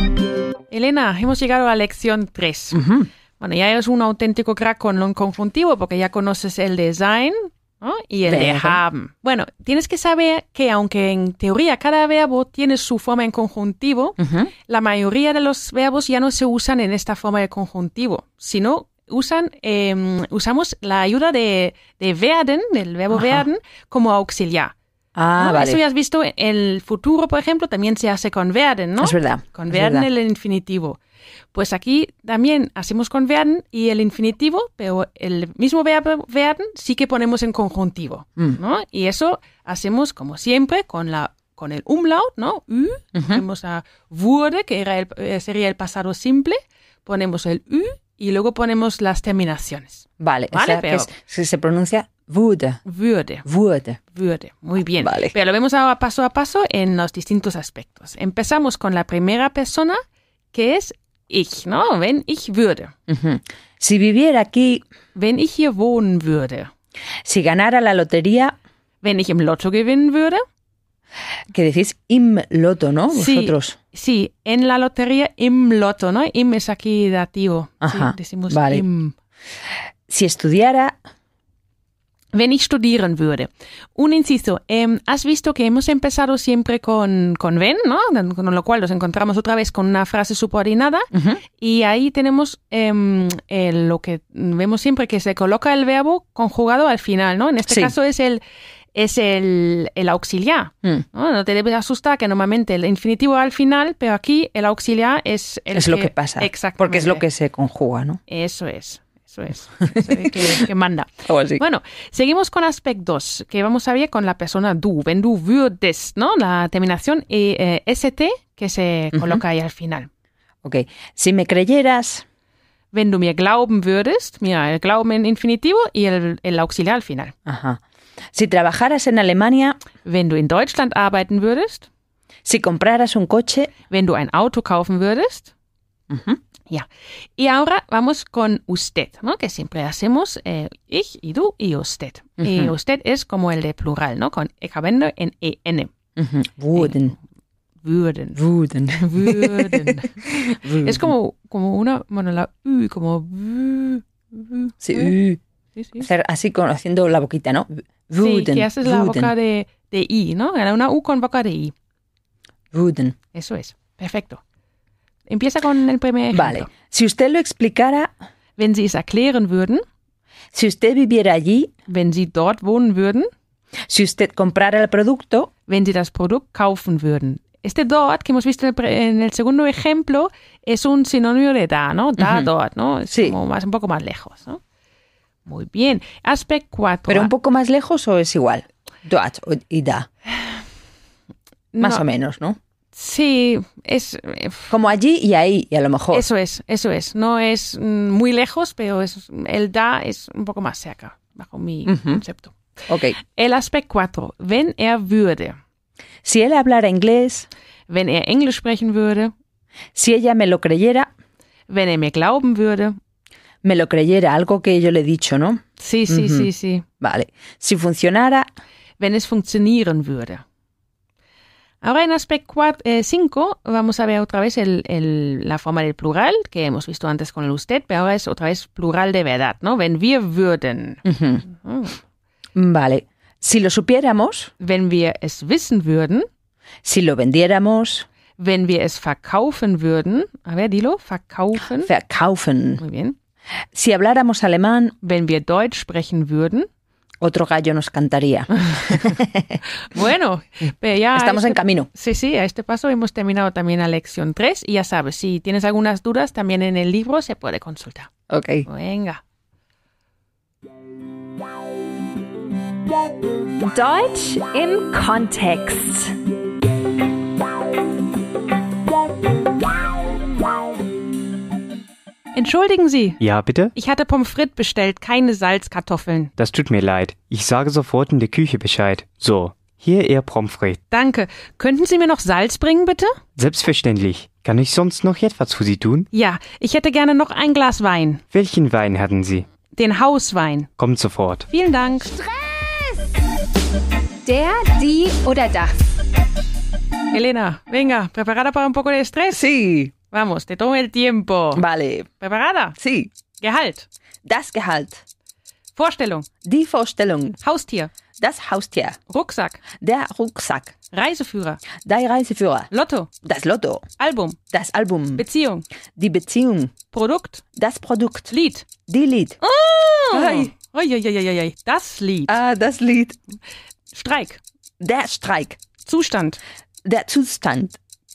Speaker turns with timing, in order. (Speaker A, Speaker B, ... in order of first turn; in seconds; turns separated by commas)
Speaker A: 0.7-2.8, Speaker B: 2.7-3.1, Speaker A: 3.4-24.7, Speaker B: 8.3-8.8, Speaker B: 14.2-14.5, Speaker B: 23.1-23.4, Speaker B: 25.2-25.8, Speaker A: 25.4-31.0, Speaker B: 29.0-30.1, Speaker A: 31.5-51.1, Speaker B: 43.1-43.4, Speaker B: 50.2-52.8, Speaker A: 52.9-53.5, Speaker B: 53.5-54.0, Speaker A: 54.1-60.0, Speaker B: 55.0-55.3, Speaker A: 60.5-62.9, Speaker B: 63.1-64.8, Speaker A: 65.2-66.7, Speaker B: 67.2-68.5, Speaker A: 69.0-70.4, Speaker B: 71.5-73.8, Speaker A: 73.1-79.2, Speaker B: 77.8-78.8, Speaker B: 80.1-81.0, Speaker A: 82.3-98.4, Speaker B: 91.1-91.4, Speaker B: 97.7-97.9, Speaker A: 99.0-107.2, Speaker B: 105.8-108.2, Speaker A: 108.3-120.1, Speaker B: 110.0-110.6, Speaker B: 111.3-111.6, Speaker B: 119.2-119.4, Speaker B: 120.6-122.2, Speaker A: 122.9-127.3, Speaker B: 127.5-127.8, Speaker B: 128.3-129.8, Speaker A: 130.0-131.9, Speaker B: 132.4-133.7, Speaker A: 133.9-135.5, Speaker B: 136.1-136.4, Speaker A: 136.7-145.9, Speaker B: 142.4-142.7, Speaker B: 146.2-147.2, Speaker A: 147.8-148.4, Speaker B: 148.4-151.1, Speaker A: 149.0-155.1, Speaker B: 154.8-155.4, Speaker A: 155.8-156.1, Speaker B: 156.0-159.3, Speaker A: 158.2-161.7, Speaker B: 162.7-163.2, Speaker A: 163.3-164.4, Speaker A: 165.3-166.7, Speaker B: 166.3-168.1, Speaker A: 168.6-169.8, Speaker B: 170.5-171.7, Speaker A: 171.9-173.3, Speaker B: 173.9-175.5, Speaker A: 175.7-184.6, Speaker B: 182.2-182.5, Speaker B: 183.1-183.4, Speaker A: 185.5-187.3, Speaker B: 187.1-190.1, Speaker A: 191.7-192.0, Speaker B: 191.8-192.6, Speaker A: 192.9-194.7, Speaker B: 194.7-196.2, Speaker A: 196.1-202.6, Speaker B: 201.9-202.2, Speaker B: 202.9-203.2, Speaker A: 203.2-205.6, Speaker B: 206.2-207.5, Speaker A: 207.9-209.3, Speaker B: 209.9-211.1, Speaker A: 211.7-213.0, Speaker B: 213.6-216.5, Speaker A: 215.8-216.8, Speaker B: 217.0-218.5, Speaker A: 219.0-220.4, Speaker A: 221.8-232.0, Speaker B: 231.1-231.4, Speaker B: 232.6-234.5, Speaker A: 234.6-236.3, Speaker B: 236.8-238.1, Speaker A: 238.4-241.9, Speaker B: 241.8-242.8, Speaker A: 242.8-243.2, Speaker B: 243.7-244.9, Speaker A: 245.0-246.7, Speaker B: 247.2-249.6, Speaker A: 249.8-258.1, Speaker B: 251.2-251.9, Speaker B: 258.3-258.7, Speaker A: 258.7-259.2, Speaker C: 263.6-266.1, Speaker A: 272.3-273.2, Speaker D: 273.2-273.7, Speaker A: 273.8-276.3, Speaker D: 276.4-280.8, Speaker A: 280.9-283.2, Speaker D: 283.4-286.1, Speaker A: 286.1-288.2, Speaker D: 288.3-289.5, Speaker A: 289.7-290.7, Speaker D: 290.8-291.5, Speaker A: 291.5-292.1, Speaker C: 292.1-292.9, Speaker C: 294.2-295.8, Speaker A: 297.1-299.5, Speaker B: 299.3-299.9, Speaker A: 300.1-301.6, Speaker B: 301.6-302.1, Speaker A: 302.2-302.8, Speaker B: 302.8-303.1, Speaker A: 303.4-303.9, Speaker B: 304.2-305.0, Speaker A: 305.8-306.3, Speaker B: 306.4-307.4, Speaker A: 307.4-307.9, Speaker B: 308.2-309.0, Speaker A: 309.1-309.6, Speaker B: 309.8-310.7, Speaker A: 310.9-311.6, Speaker B: 311.8-312.7, Speaker A: 312.7-313.1, Speaker B: 313.2-313.9, Speaker A: 314.0-314.4, Speaker B: 314.5-315.2, Speaker A: 315.2-315.6, Speaker B: 316.0-316.8, Speaker A: 316.9-317.4, Speaker B: 317.6-318.3, Speaker A: 318.3-318.7, Speaker B: 318.9-319.4, Speaker A: 319.5-322.3, Speaker B: 320.1-320.5, Speaker B: 322.3-323.2, Speaker A: 323.9-324.4, Speaker B: 324.8-325.6, Speaker A: 325.9-326.4, Speaker B: 326.9-327.8